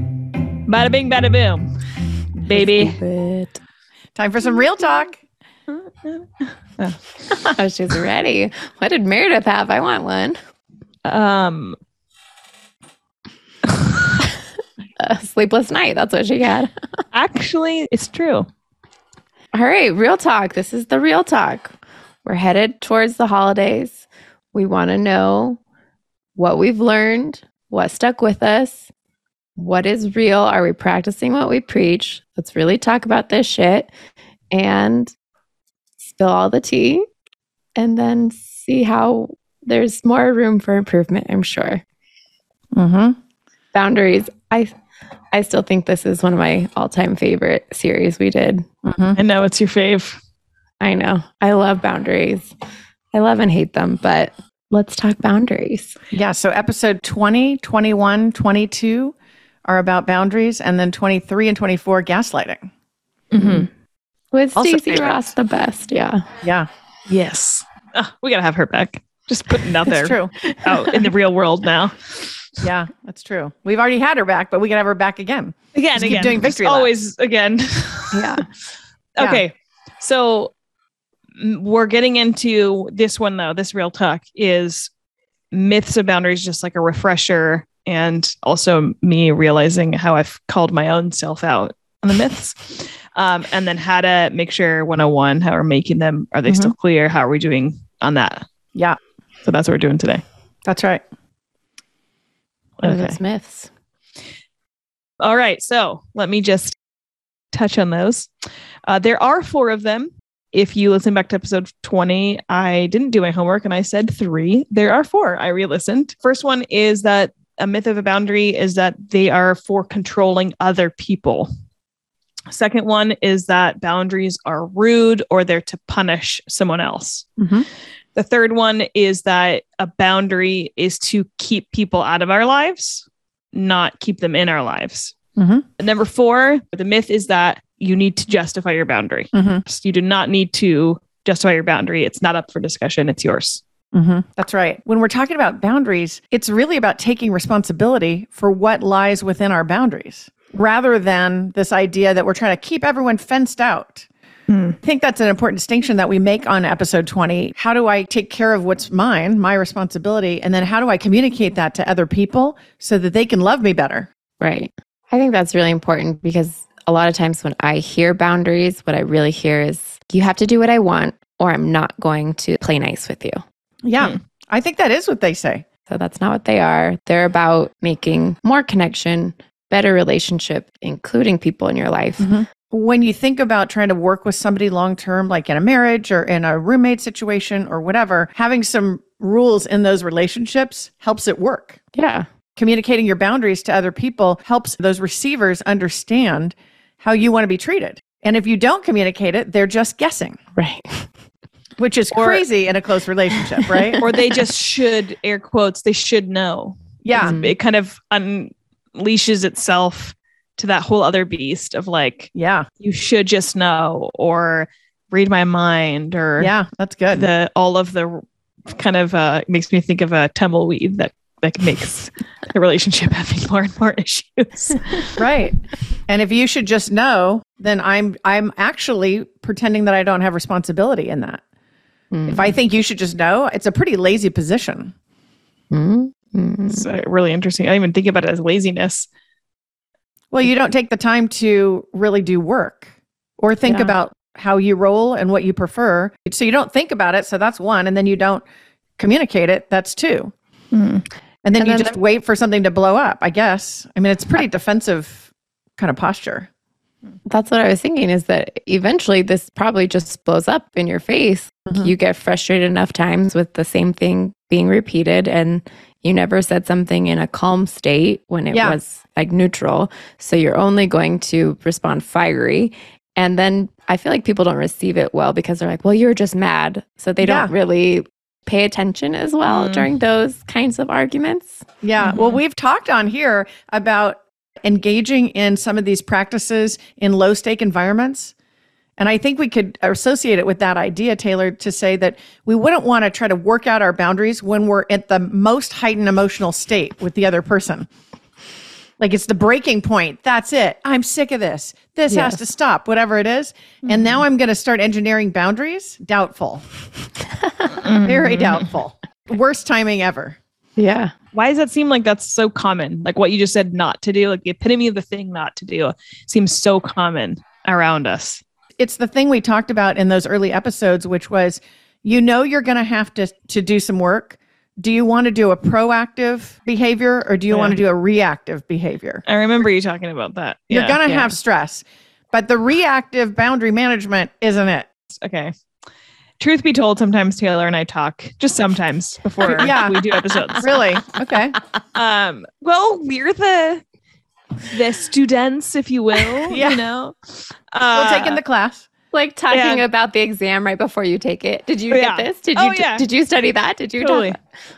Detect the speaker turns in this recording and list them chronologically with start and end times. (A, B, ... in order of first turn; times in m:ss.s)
0:00.7-0:01.7 A
0:02.5-0:03.0 A
0:02.5-0:03.6 B
0:04.2-0:05.2 C
0:05.7-0:07.0 A
0:07.4-0:10.4 B
0:11.0-0:11.8 A
0:15.0-0:16.7 B
0:17.1-0:18.5 A
0:19.5-0:25.6 B
0:26.4-0:28.9 B
0:29.6-0:33.9 B
0:34.5-0:35.1 B
0:36.0-0:37.0 B
0:37.8-0:41.8 B
0:42.7-0:43.2 C
0:43.7-0:44.7 B
0:45.3-0:48.6 B
0:48.8-0:49.2 C
0:49.2-0:50.2 A
0:50.8-0:52.5 B
0:53.1-0:55.9 B
0:56.1-1:02.7 C
1:03.3-1:03.7 A
1:03.4-1:03.7 B
1:04.3-1:06.2 B
1:04.5-1:05.3 C
1:06.4-1:06.7 C
1:07.1-1:12.7 A
1:09.9-1:10.3 C
1:10.4-1:11.0 B
1:12.6-1:16.9 C
1:15.8-1:18.4 A
1:18.1-1:18.5 B
1:19.2-1:20.5 A
1:21.4-1:24.9 A
1:25.5-1:38.5 A
1:36.5-1:36.8 C
1:39.4-1:40.2 A
1:40.7-1:41.0 C
1:42.8-1:43.2 A
1:42.8-1:43.7 B
1:45.2-1:46.8 A
1:47.5-1:48.3 A
1:48.8-2:01.5 A
2:02.5-2:07.3 A
2:07.4-2:07.7 C
2:08.1-2:15.1 A
2:15.4-2:15.6 C
2:15.8-2:23.6 A
2:19.3-2:19.6 C
2:23.9-2:34.1 C
2:34.5-2:34.8 A
2:34.8-2:44.1 C
2:44.4-2:53.4 B
2:53.8-2:55.6 C
2:55.9-3:02.3 B
3:02.2-3:11.8 C
3:11.9-3:12.3 B
3:12.6-3:20.4 C
3:20.6-3:21.1 B
3:21.8-3:24.0 C
3:22.1-3:22.4 A
3:23.7-3:24.0 B
3:24.0-3:36.5 A
3:27.0-3:27.4 C
3:27.1-3:27.5 B
3:32.3-3:32.7 C
3:36.4-3:37.3 C
3:37.1-3:45.2 A
3:45.2-3:45.6 C
3:46.1-3:51.4 C
3:52.1-3:52.5 B
3:52.3-3:54.9 C
3:55.7-3:56.9 B
3:56.7-3:59.1 A
4:00.3-4:08.4 C
4:03.7-4:03.9 B
4:09.0-4:10.3 C
4:10.7-4:11.0 A
4:11.4-4:16.5 C
4:11.6-4:12.0 B
4:17.3-4:41.6 B
4:21.7-4:21.9 C
4:28.5-4:28.8 C
4:37.2-4:37.5 C
4:39.5-4:39.9 A
4:41.8-4:48.3 C
4:42.0-4:42.3 A
4:49.0-4:57.9 C
4:59.0-5:06.6 C
5:02.1-5:02.4 B
5:03.9-5:04.1 A
5:07.4-5:07.7 B
5:07.8-5:08.7 A
5:08.0-5:10.4 C
5:10.8-5:11.1 B
5:11.3-5:18.4 A
5:18.8-5:29.2 C
5:27.5-5:27.8 A
5:29.3-5:31.0 A
5:30.7-5:34.9 C
5:31.0-5:31.3 B
5:35.2-5:35.5 A
5:36.4-5:41.0 A
5:39.4-5:40.6 B
5:39.5-5:41.6 C
5:42.0-5:43.8 A
5:44.7-5:48.4 A
5:46.5-5:46.9 C
5:47.9-5:48.9 C
5:49.1-5:54.4 B
5:49.5-5:49.8 A
5:51.9-5:53.0 A
5:54.0-5:54.4 A